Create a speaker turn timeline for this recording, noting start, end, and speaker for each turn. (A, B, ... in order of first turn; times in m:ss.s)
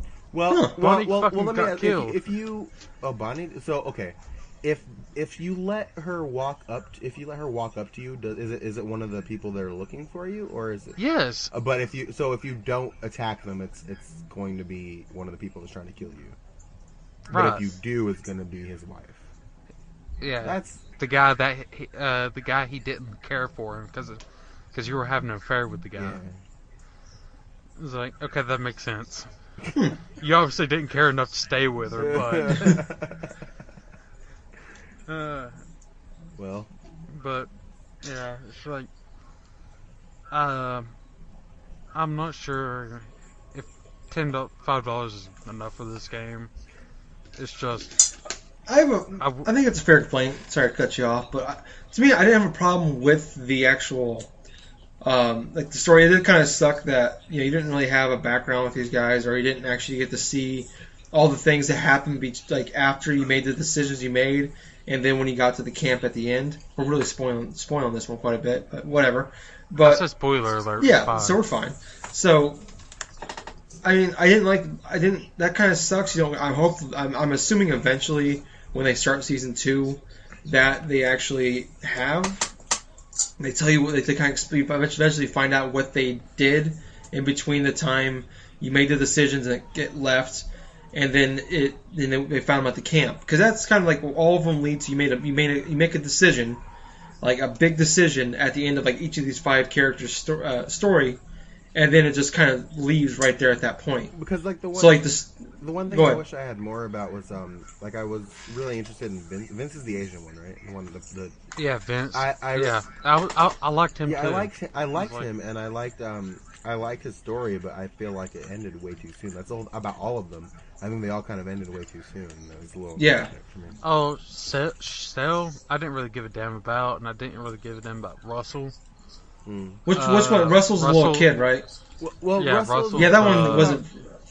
0:00.3-0:11.0 A
0:00.5-0:00.8 B
0:00.8-0:02.2 C
0:11.0-0:11.5 C
0:11.5-0:16.4 A
0:17.3-0:17.8 C
0:17.3-0:19.3 A
0:20.2-0:24.2 C
0:20.4-0:20.8 A
0:24.7-0:26.2 C
0:26.0-0:26.4 A
0:27.8-0:29.3 C
0:30.2-0:32.8 C
0:32.0-0:33.3 A
0:35.1-0:35.6 C
0:36.4-0:36.7 A
0:37.1-0:37.5 C
0:38.0-0:38.9 C
0:40.3-0:40.9 C
0:41.9-0:46.5 C
0:47.4-0:48.0 C
0:48.7-0:54.3 B
0:49.2-0:49.5 C
0:55.0-1:10.0 B
1:09.8-1:11.4 C
1:10.8-1:12.6 B
1:13.8-1:22.5 B
1:23.4-1:36.6 B
1:37.2-1:41.2 B
1:41.8-1:44.1 B
1:44.1-1:51.4 A
1:44.7-1:46.2 B
1:51.6-1:55.3 C
1:52.1-1:52.8 A
1:54.0-2:03.8 A
2:03.0-2:03.3 B
2:03.8-2:08.8 C
2:09.5-2:09.8 A
2:09.9-2:11.7 B
2:09.9-2:11.3 C
2:12.0-2:13.8 A
2:12.4-2:13.8 C
2:12.9-2:14.0 B